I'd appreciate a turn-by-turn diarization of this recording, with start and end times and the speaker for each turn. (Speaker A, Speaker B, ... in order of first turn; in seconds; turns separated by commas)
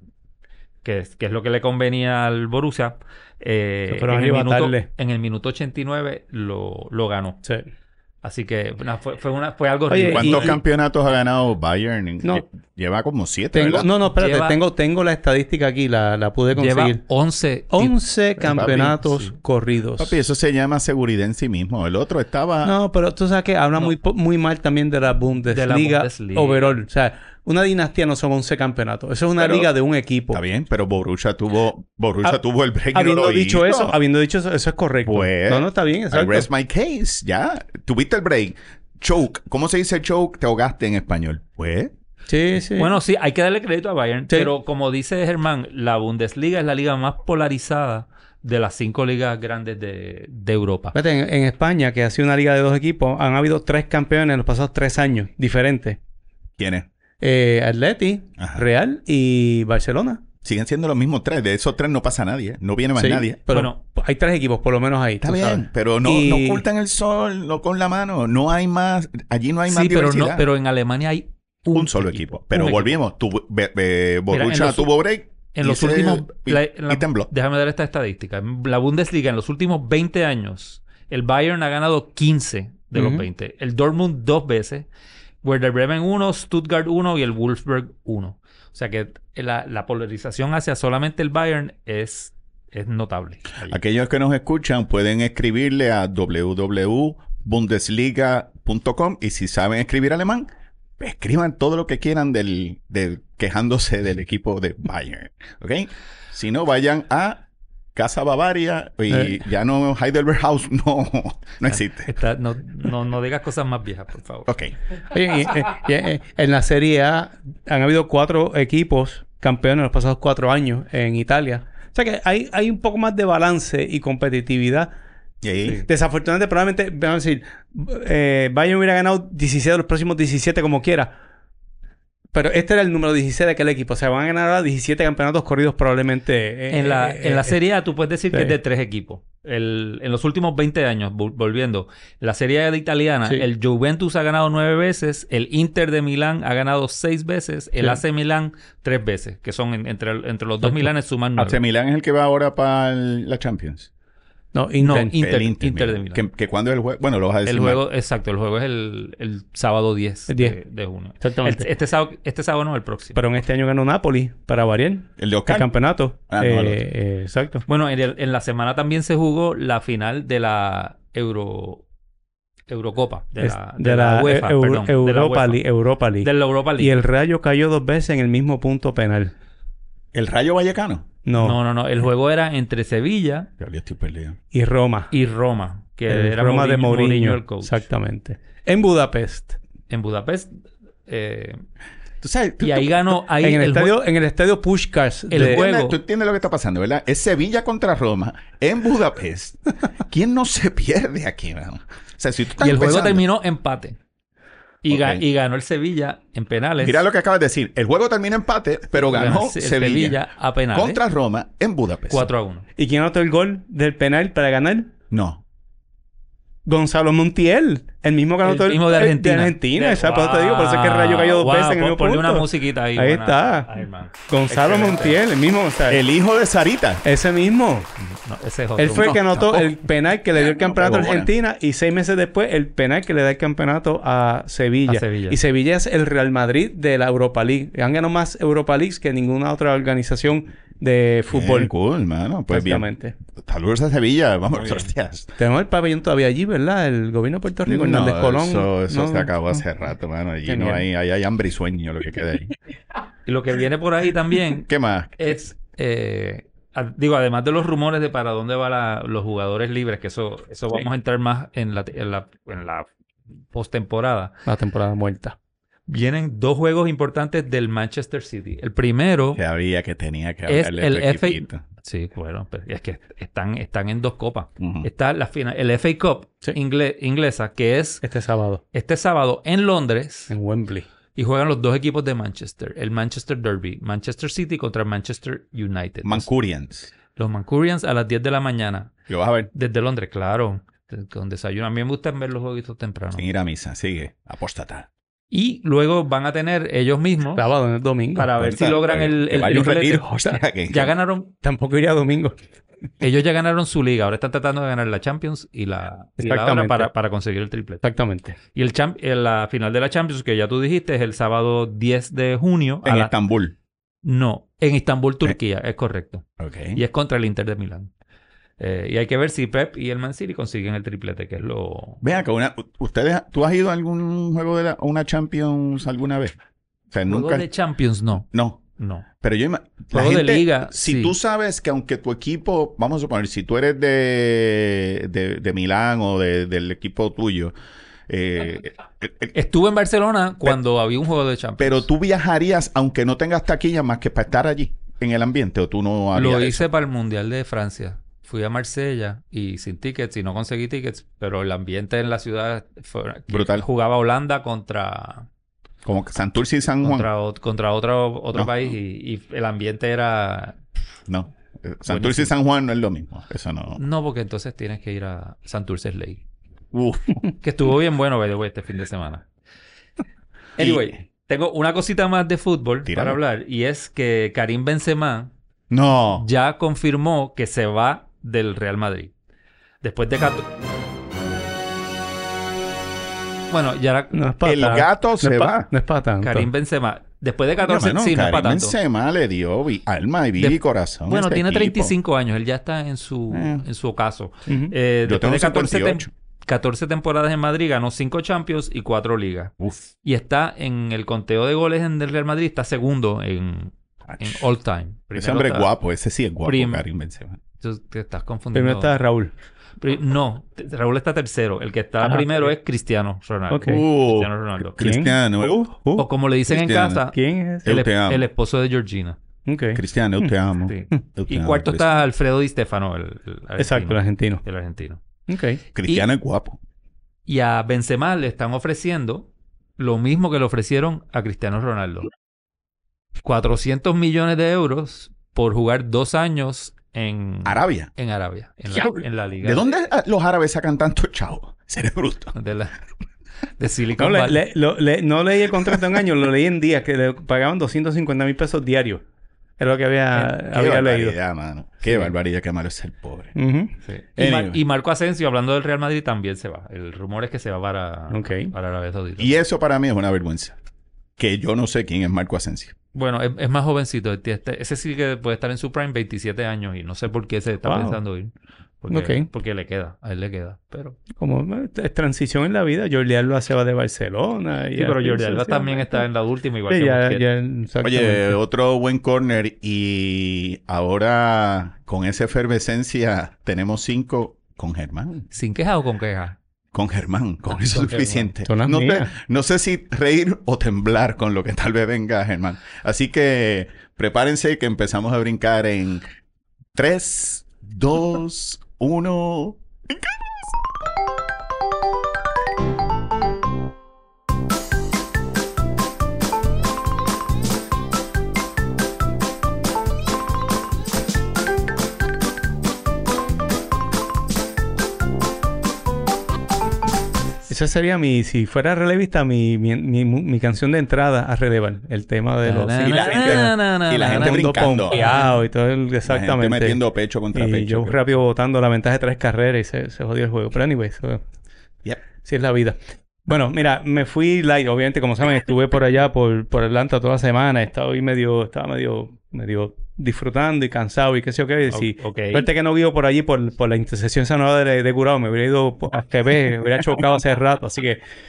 Speaker A: 0.8-7.4, Speaker B: 3.9-4.9, Speaker A: 8.2-10.6, Speaker B: 9.9-10.6, Speaker C: 10.1-13.9, Speaker B: 13.5-17.0, Speaker A: 14.2-14.6, Speaker A: 16.6-19.4, Speaker B: 17.7-20.2, Speaker C: 18.4-18.9, Speaker C: 20.0-22.8, Speaker B: 22.6-30.4, Speaker A: 25.5-26.8, Speaker C: 29.4-29.7, Speaker C: 30.3-34.0, Speaker B: 32.9-36.5, Speaker C: 35.0-41.9, Speaker B: 42.3-42.9, Speaker A: 42.8-51.0, Speaker B: 50.9-56.0, Speaker C: 56.6-56.9, Speaker B: 57.2-60.2, Speaker C: 58.4-58.6, Speaker C: 60.4-63.4, Speaker B: 63.0-66.7, Speaker A: 63.5-63.8, Speaker C: 65.2-70.5, Speaker A: 69.7-73.0, Speaker C: 71.7-77.3, Speaker A: 74.3-74.9, Speaker A: 75.5-84.9, Speaker B: 83.0-83.3, Speaker A: 85.4-93.8, Speaker C: 93.7-107.4, Speaker C: 108.0-112.1, Speaker B: 109.1-109.4, Speaker A: 111.7-114.5, Speaker C: 114.5-114.7, Speaker B: 115.1-124.9, Speaker C: 125.4-125.8, Speaker B: 125.7-131.2, Speaker B: 132.3-137.6, Speaker A: 136.7-151.6, Speaker B: 150.6-150.9, Speaker C: 151.4-153.9, Speaker B: 154.5-155.2, Speaker A: 154.8-156.2, Speaker C: 155.2-157.8, Speaker A: 157.5-163.2, Speaker B: 160.3-160.6, Speaker B: 161.2-161.7, Speaker B: 163.2-167.7, Speaker C: 165.2-165.7, Speaker C: 166.3-166.8, Speaker A: 167.7-171.8, Speaker A: 172.7-175.6, Speaker B: 173.4-179.3, Speaker A: 176.2-177.0, Speaker C: 180.1-181.1, Speaker B: 181.2-181.6, Speaker A: 181.4-183.5, Speaker C: 183.6-184.4, Speaker B: 184.5-185.1, Speaker A: 185.1-187.8, Speaker B: 186.1-189.6, Speaker A: 189.9-190.5, Speaker A: 191.1-191.6, Speaker C: 192.2-192.9, Speaker A: 192.6-194.0, Speaker B: 193.4-195.7, Speaker A: 195.3-196.0, Speaker C: 195.3-203.2, Speaker A: 202.6-204.0, Speaker A: 204.8-207.0, Speaker C: 204.9-205.2, Speaker C: 206.8-210.2, Speaker A: 208.9-211.0, Speaker C: 210.7-212.3, Speaker A: 212.1-212.7, Speaker B: 212.8-214.9, Speaker C: 215.1-215.4, Speaker B: 216.7-223.7, Speaker A: 218.4-225.2, Speaker B: 224.3-226.0, Speaker C: 225.9-227.0, Speaker B: 227.0-227.9, Speaker A: 228.0-229.7, Speaker B: 228.8-241.7, Speaker C: 229.0-229.6, Speaker C: 230.4-231.3, Speaker A: 234.9-235.4, Speaker C: 241.3-245.3, Speaker B: 242.5-243.2, Speaker B: 245.4-249.6, Speaker C: 247.7-252.5, Speaker B: 250.5-250.8, Speaker A: 253.3-262.9, Speaker C: 254.7-255.3, Speaker A: 263.5-264.3, Speaker B: 264.5-265.4, Speaker A: 265.9-269.4, Speaker C: 269.4-271.6, Speaker A: 270.5-278.0, Speaker C: 274.6-274.9, Speaker B: 278.0-278.6, Speaker A: 278.7-280.3, Speaker B: 280.3-280.9, Speaker A: 281.2-286.3, Speaker C: 286.0-286.9, Speaker A: 287.2-288.9, Speaker C: 289.1-289.5, Speaker A: 289.5-293.3, Speaker C: 293.1-294.9, Speaker A: 295.3-297.4, Speaker B: 297.4-298.3, Speaker A: 298.1-301.3, Speaker C: 298.4-300.9, Speaker B: 301.4-302.4, Speaker A: 303.0-307.8, Speaker B: 306.2-306.9, Speaker B: 307.8-308.4, Speaker A: 308.5-313.1, Speaker C: 312.8-313.5, Speaker A: 314.0-317.9, Speaker C: 316.4-316.8, Speaker A: 318.6-322.0, Speaker C: 322.0-326.3, Speaker C: 326.9-327.5, Speaker A: 327.1-329.1, Speaker C: 328.3-328.6, Speaker C: 329.2-337.5, Speaker A: 329.9-331.1, Speaker C: 338.1-339.3, Speaker A: 339.3-341.9, Speaker C: 341.6-346.7, Speaker A: 346.1-355.3, Speaker C: 353.3-353.7, Speaker C: 355.9-357.1, Speaker A: 356.8-360.6, Speaker C: 358.3-358.7, Speaker C: 361.1-363.8, Speaker A: 361.9-362.3, Speaker A: 363.8-366.2, Speaker C: 366.7-367.2, Speaker A: 367.4-369.2, Speaker C: 370.6-371.0, Speaker A: 370.6-375.3, Speaker C: 372.9-373.2, Speaker C: 375.7-376.2, Speaker A: 376.2-379.1, Speaker A: 379.8-380.5, Speaker A: 383.5-384.9, Speaker B: 384.1-386.5, Speaker C: 384.4-385.7, Speaker A: 386.2-388.8, Speaker C: 387.6-391.9, Speaker A: 390.4-405.7, Speaker C: 393.3-393.6, Speaker B: 394.5-394.7, Speaker C: 395.1-396.1, Speaker C: 399.6-399.9, Speaker C: 404.1-404.4, Speaker C: 405.2-407.4, Speaker A: 406.4-406.8, Speaker A: 407.6-408.9, Speaker B: 408.5-409.3, Speaker A: 409.8-415.0, Speaker B: 412.0-412.5, Speaker B: 413.5-413.9, Speaker C: 413.7-415.6, Speaker B: 414.8-416.1, Speaker A: 416.0-419.2, Speaker C: 416.5-417.0, Speaker B: 417.1-417.7, Speaker C: 417.6-418.3, Speaker B: 419.4-420.3, Speaker C: 419.8-421.9, Speaker A: 420.7-425.0, Speaker B: 423.6-424.4, Speaker B: 425.3-425.6, Speaker C: 425.8-426.6, Speaker A: 427.3-432.1, Speaker A: 433.2-439.8, Speaker C: 437.5-437.9, Speaker C: 438.7-442.3, Speaker A: 442.4-442.7, Speaker A: 443.6-444.4, Speaker B: 444.0-449.0, Speaker B: 449.6-451.2, Speaker C: 450.5-453.4, Speaker B: 453.4-453.7, Speaker A: 453.9-459.4, Speaker C: 454.2-454.6, Speaker B: 458.1-458.5, Speaker C: 459.2-460.6, Speaker C: 461.2-462.7, Speaker A: 462.9-471.0, Speaker B: 467.6-468.0, Speaker B: 468.9-469.3, Speaker B: 471.2-476.1, Speaker A: 474.8-477.3, Speaker B: 476.7-478.4, Speaker C: 477.8-485.3, Speaker A: 485.3-486.4, Speaker C: 486.7-496.1, Speaker A: 487.5-488.3, Speaker B: 488.5-489.1, Speaker C: 496.8-500.5, Speaker B: 517.5-523.5, Speaker A: 522.4-525.4, Speaker C: 522.9-525.0, Speaker B: 524.1-526.8, Speaker C: 526.1-528.0, Speaker B: 527.3-531.2, Speaker B: 532.2-548.0, Speaker A: 541.7-542.5